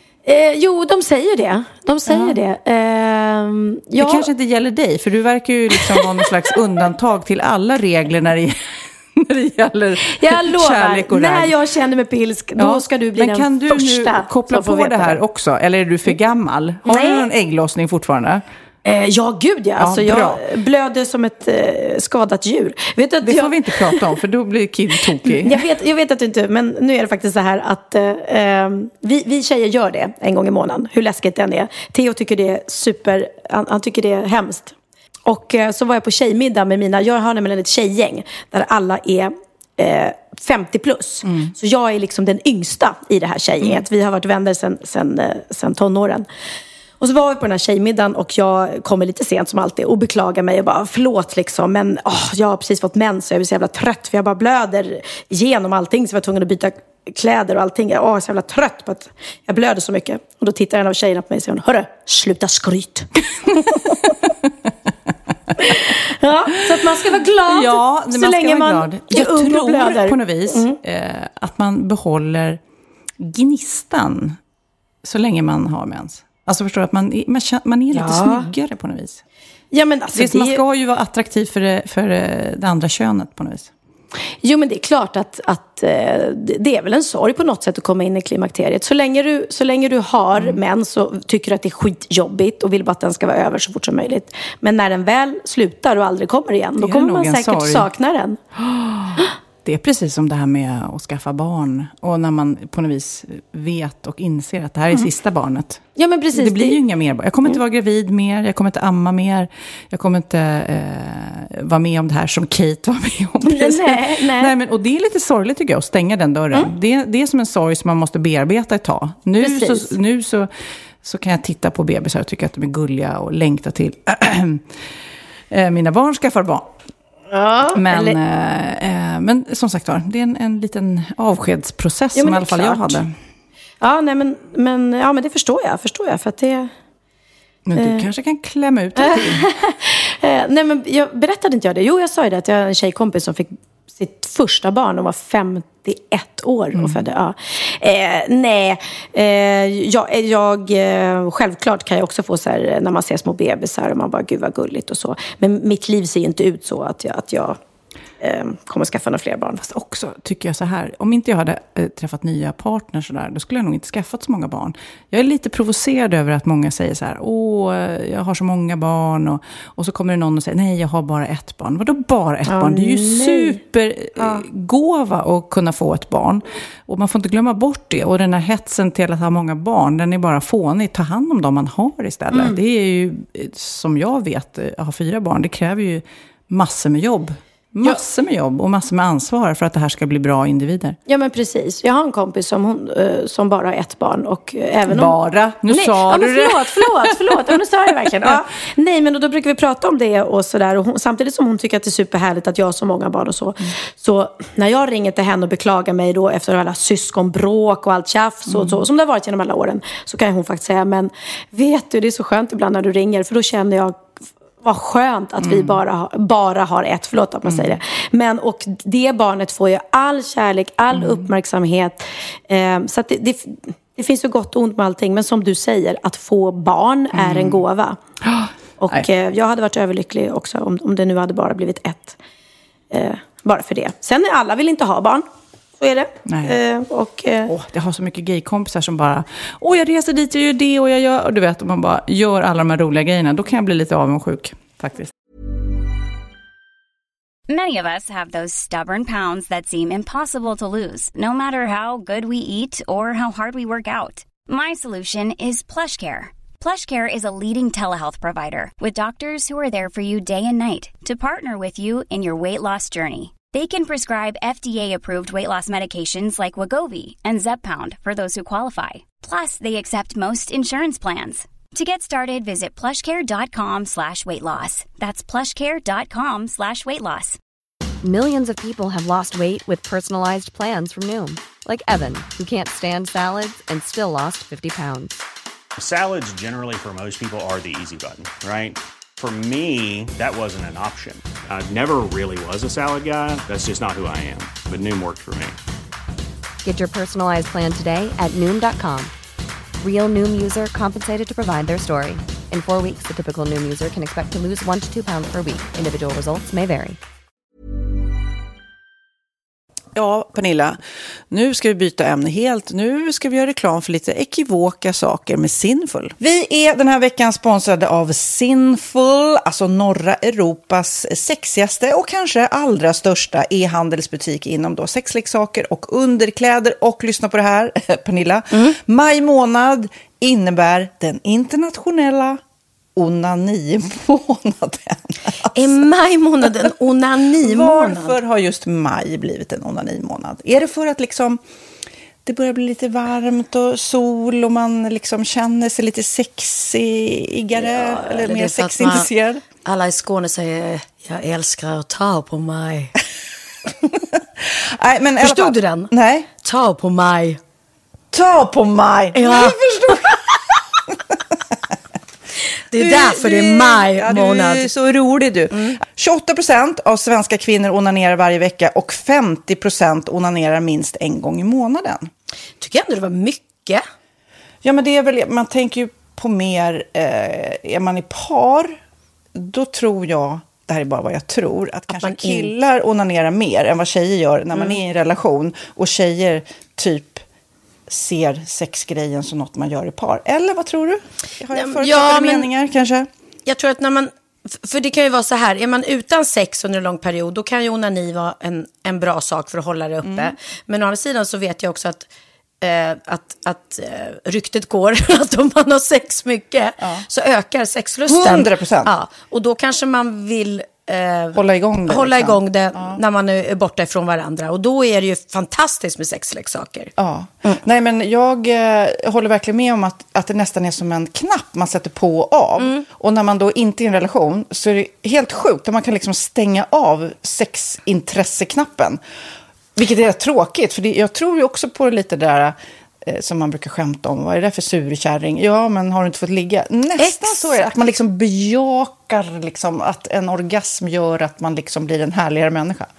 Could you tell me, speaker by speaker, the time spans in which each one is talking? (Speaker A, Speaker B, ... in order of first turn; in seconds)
Speaker A: 0.2-4.3, 5.9-6.2, 10.0-15.2, 16.9-17.3, 18.8-24.0, 25.2-34.7, 35.2-46.3, 47.0-64.1, 65.6-70.8, 77.9-78.5, 79.7-80.6, 84.4-98.4, 106.0-106.8, 113.4-114.5, 119.4-119.9, 127.3-128.2, 132.1-133.0, 133.8-136.7, 137.8-138.0, 139.0-157.6, 158.2-159.6, 172.4-173.6, 174.2-174.4, 182.3-182.6, 191.1-195.1, 195.7-214.1, 214.6-228.0, 228.8-232.2, 232.9-235.3, 235.8-237.5, 335.5-338.2, 347.6-349.1, 349.6-352.9, 355.2-357.4, 359.1-360.2, 362.7-364.7, 372.6-373.8, 382.0-382.5, 391.5-392.5, 393.4-402.1, 402.6-416.9, 422.6-422.8, 437.0-437.6
Speaker B: 2.1-2.4, 4.0-11.5, 12.6-18.4, 19.8-20.4, 23.2-25.6, 41.2-41.5, 66.8-72.6, 73.2-74.4, 75.0-79.2, 80.1-83.7, 96.8-97.9, 98.5-120.5, 121.0-124.7, 125.5-126.7, 127.7-133.1, 137.7-139.4, 146.7-147.0, 159.6-191.0, 194.9-197.6, 208.5-208.8, 215.4-215.8, 217.5-217.8, 220.9-221.2, 227.1-227.6, 228.2-229.1, 236.2-236.6, 237.5-245.1, 309.9-332.4, 332.9-335.7, 337.4-341.4, 342.2-349.4, 354.4-356.3, 358.1-360.2, 362.7-372.1, 374.6-378.8, 379.3-387.2, 387.9-393.1, 400.0-400.3, 408.1-408.9, 411.3-413.0, 417.0-429.0, 429.8-442.9
Speaker C: 247.5-277.4
Speaker D: 278.0-285.2, 296.6-299.1, 299.8-307.0
Speaker E: 285.8-295.6